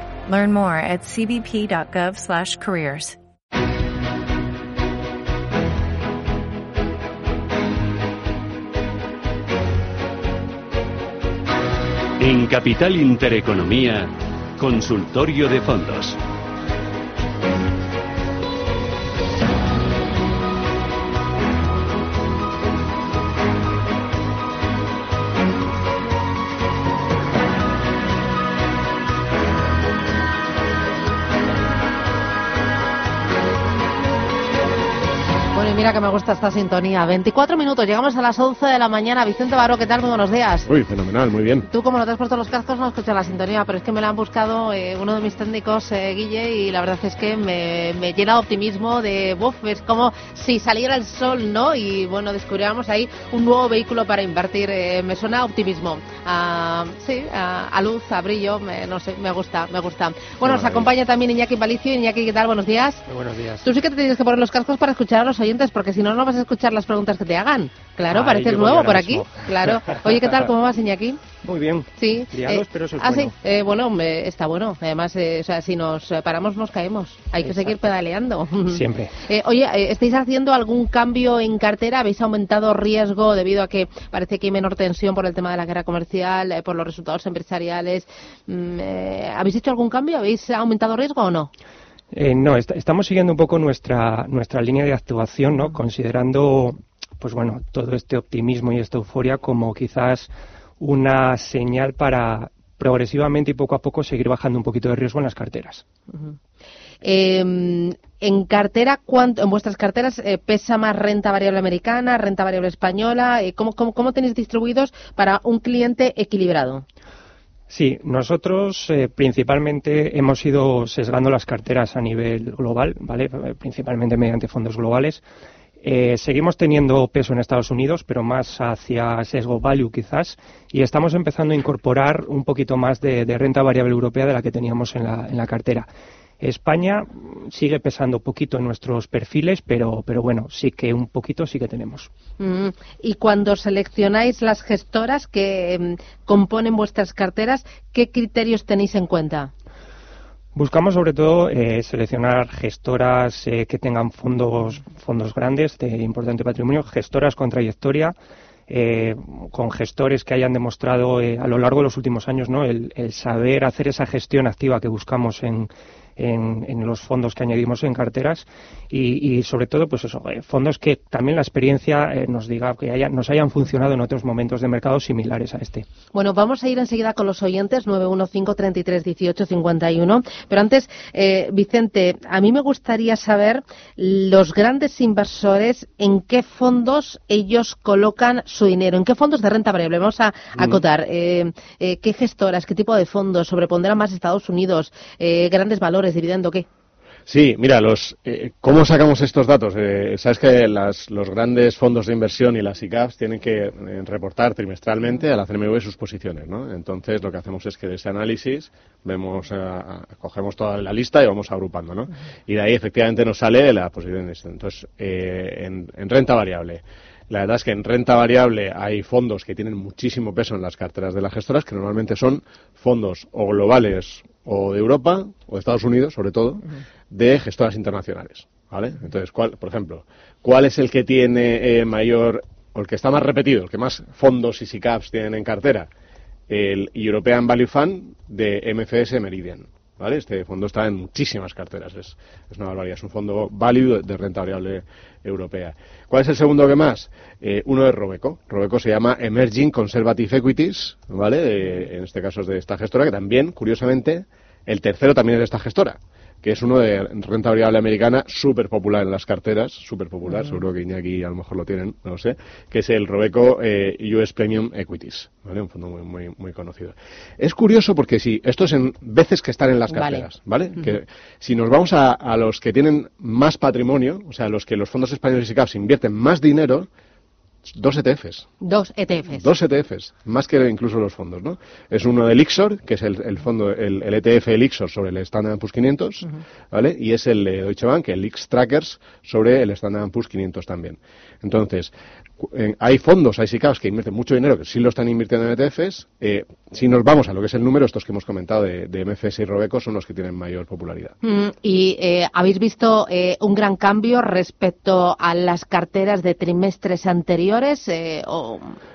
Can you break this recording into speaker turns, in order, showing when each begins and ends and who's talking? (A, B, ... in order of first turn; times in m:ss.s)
0:00.2-0:03.2 A
0:12.2-0:16.2 B
0:35.5-0:40.7 C
0:40.7-0:41.7 D
0:41.7-1:03.0 C
1:00.5-1:00.9 D
1:03.1-1:03.7 E
1:03.6-1:11.2 C
1:08.1-1:10.4 E
1:11.4-1:13.3 E
1:12.0-1:31.5 C
1:17.4-1:17.8 E
1:18.7-1:19.1 E
1:32.1-1:45.8 E
1:47.0-1:56.8 C
1:57.7-2:05.2 E
2:05.8-2:15.9 E
2:16.4-2:22.1 E
2:22.4-2:29.5 C
2:30.5-2:38.2 E
2:38.7-2:55.8 E
2:56.1-3:16.6 C
3:17.3-3:55.9 D
3:56.5-4:36.9 D
4:29.9-4:30.2 C
4:37.8-4:38.4 D
4:38.6-4:39.4 C
4:39.3-5:01.2 D
5:01.2-5:08.8 C